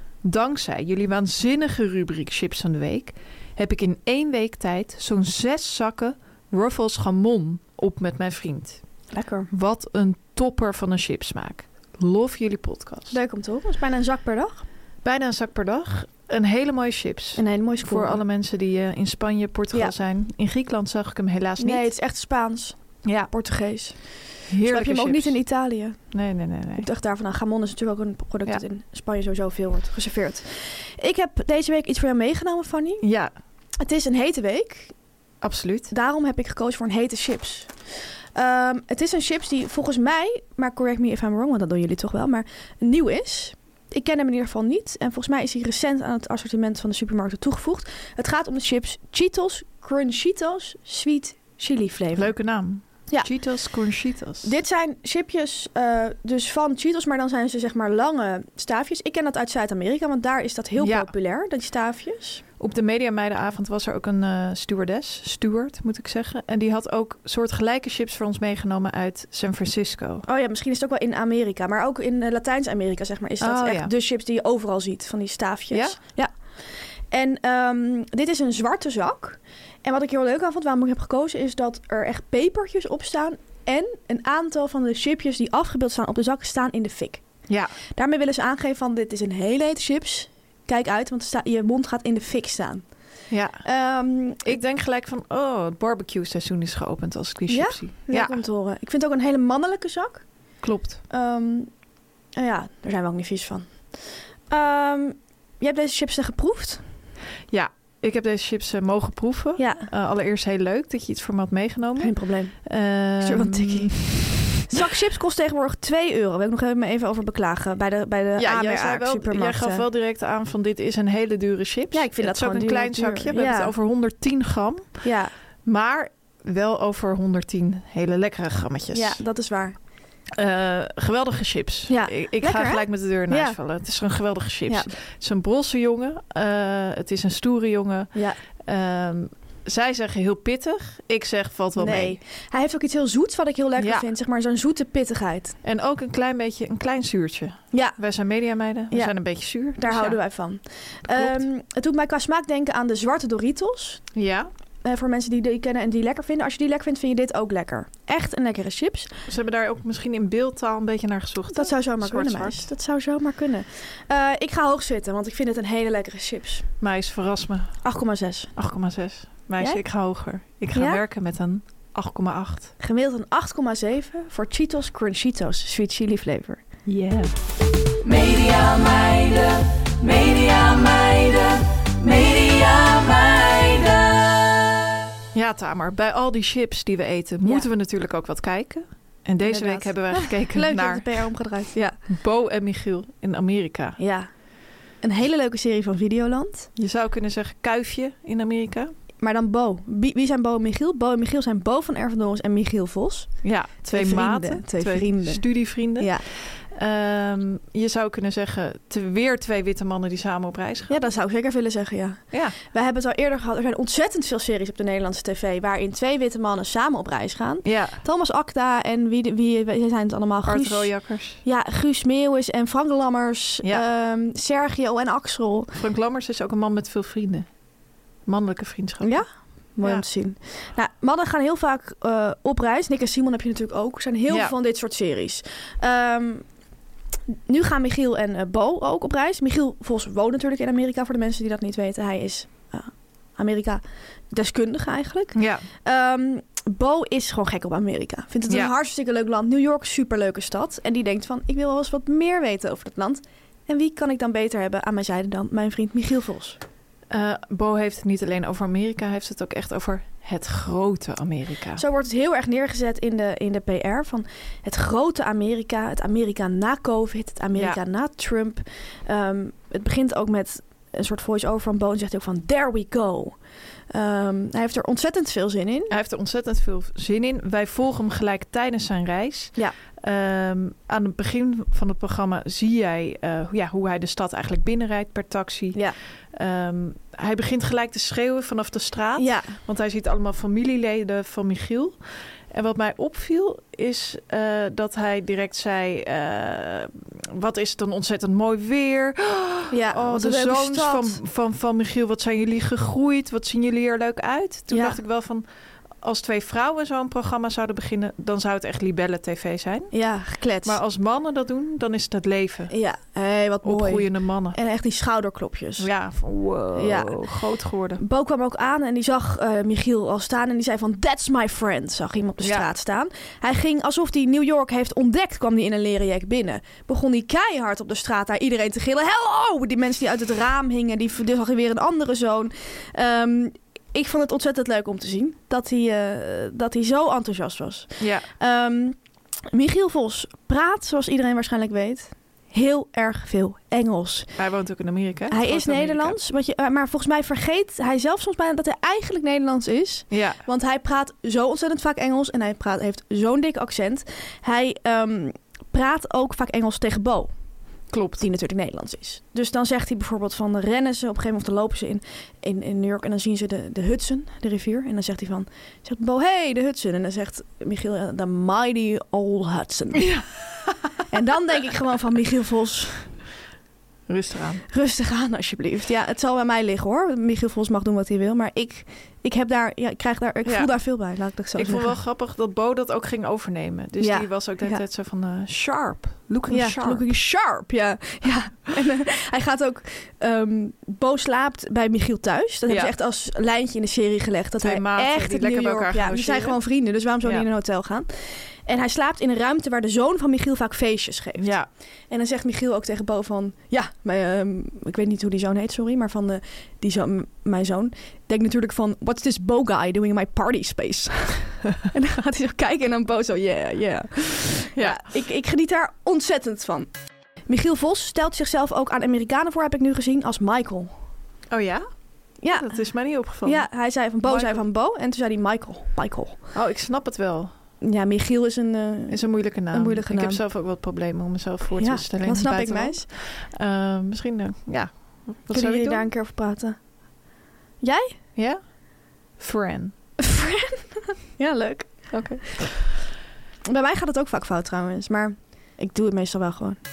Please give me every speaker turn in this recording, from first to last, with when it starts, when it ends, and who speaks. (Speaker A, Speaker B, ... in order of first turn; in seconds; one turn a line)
Speaker A: 0.2-8.8
Speaker B: 9.1-9.5
Speaker A: 9.5-13.2
Speaker B: 13.1-14.6
Speaker A: 15.0-21.9
Speaker B: 17.4-18.2
Speaker B: 21.6-26.1
Speaker A: 23.0-23.3
Speaker A: 24.5-25.4
Speaker A: 26.1-26.9
Speaker B: 26.8-33.0
Speaker A: 33.0-33.3
Speaker B: 33.8-34.9
Speaker A: 35.4-35.9
Speaker B: 35.9-37.7
Speaker B: 38.3-52.3
Speaker A: 52.1-54.5
Speaker B: 54.4-62.4
Speaker A: 60.8-61.1
Speaker A: 62.6-70.2
Speaker B: 70.2-76.3
Speaker A: 73.4-73.9
Speaker A: 75.7-76.0
Speaker B: 77.1-87.2
Speaker A: 87.5-87.7
Speaker B: 87.9-92.8
Speaker A: 93.3-93.6
Speaker B: 93.6-94.6
Speaker A: 94.4-98.4
Speaker B: 97.5-100.2
Speaker A: 100.6-101.0
Speaker B: 101.1-101.7
Speaker B: 102.3-103.7
Speaker B: 104.5-106.8
Speaker A: 107.5-114.8
Speaker B: 109.6-109.9
Speaker B: 112.0-112.6
Speaker B: 113.2-114.1
Speaker B: 114.7-119.8
Speaker A: 118.4-125.1
Speaker B: 121.9-123.7
Speaker B: 125.0-125.3
Speaker A: 125.6-129.2
Speaker B: 128.9-129.8
Speaker A: 130.3-142.2
Speaker B: 131.9-133.6
Speaker B: 134.7-134.9
Speaker B: 138.1-138.4
Speaker B: 141.8-145.6
Speaker A: 143.8-144.1
Speaker A: 145.6-150.2
Speaker B: 147.7-148.0
Speaker B: 149.8-154.0
Speaker A: 151.1-151.4
Speaker A: 154.1-154.5
Speaker B: 154.8-159.1
Speaker A: 159.3-162.7
Speaker B: 161.5-166.7
Speaker A: 166.8-167.8
Speaker B: 167.8-168.5
Speaker A: 168.5-172.7
Speaker B: 170.7-171.0
Speaker B: 172.8-176.6
Speaker A: 176.8-177.3
Speaker C: 178.0-184.6
Speaker A: 185.3-191.2
Speaker B: 189.4-192.0
Speaker A: 192.1-194.0
Speaker B: 194.0-194.3
Speaker B: 195.0-196.7
Speaker A: 196.8-198.9
Speaker B: 199.2-206.2
Speaker A: 203.4-211.0
Speaker B: 210.9-225.7
Speaker A: 217.6-218.0
Speaker A: 220.4-221.4
Speaker A: 225.7-227.5
Speaker A: 228.2-229.2
Speaker B: 229.0-236.4
Speaker A: 234.3-234.5
Speaker B: 237.5-256.6
Speaker A: 245.3-245.6
Speaker A: 248.5-248.7
Speaker A: 257.1-261.8
Speaker B: 261.8-273.4
Speaker A: 267.5-267.8
Speaker B: 273.9-275.9
Speaker A: 275.9-305.4
Speaker B: 289.2-289.6
Speaker B: 299.7-301.2
Speaker B: 304.7-305.0
Speaker A: 306.0-309.9
Speaker B: 309.9-310.8
Speaker A: 310.6-312.7
Speaker B: 312.7-315.9
Speaker A: 313.6-314.6
Speaker A: 315.8-318.0
Speaker B: 316.7-317.2
Speaker B: 318.0-338.9
Speaker A: 322.4-322.7
Speaker A: 338.0-338.3
Speaker B: 339.5-344.3
Speaker A: 344.4-346.2
Speaker B: 345.3-357.3
Speaker A: 350.1-350.4
Speaker A: 357.9-358.3
Speaker B: 358.2-370.1
Speaker A: 370.0-370.2
Speaker B: 371.1-373.1
Speaker A: 374.1-374.6
Speaker B: 374.7-381.9
Speaker A: 380.4-380.7
Speaker A: 381.5-387.0
Speaker B: 384.0-384.8
Speaker B: 386.5-398.1
Speaker A: 392.7-392.9
Speaker A: 394.6-396.6
Speaker B: 398.6-401.5
Speaker A: 401.4-401.7
Speaker B: 402.1-416.9
Speaker A: 414.7-415.0
Speaker B: 417.5-420.9
Speaker A: 421.5-421.9
Speaker B: 422.4-422.8
Speaker A: 422.5-423.7
Speaker B: 423.4-426.5
Speaker A: 424.2-424.6
Speaker A: 426.5-427.5
Speaker B: 427.8-430.4
Speaker A: 429.1-436.1
Speaker B: 431.8-433.1
Speaker B: 435.5-436.8
Speaker B: 437.8-438.1
Speaker A: 439.4-439.9
Speaker B: 440.2-442.2
Speaker A: 442.1-442.7
Speaker B: 443.7-446.8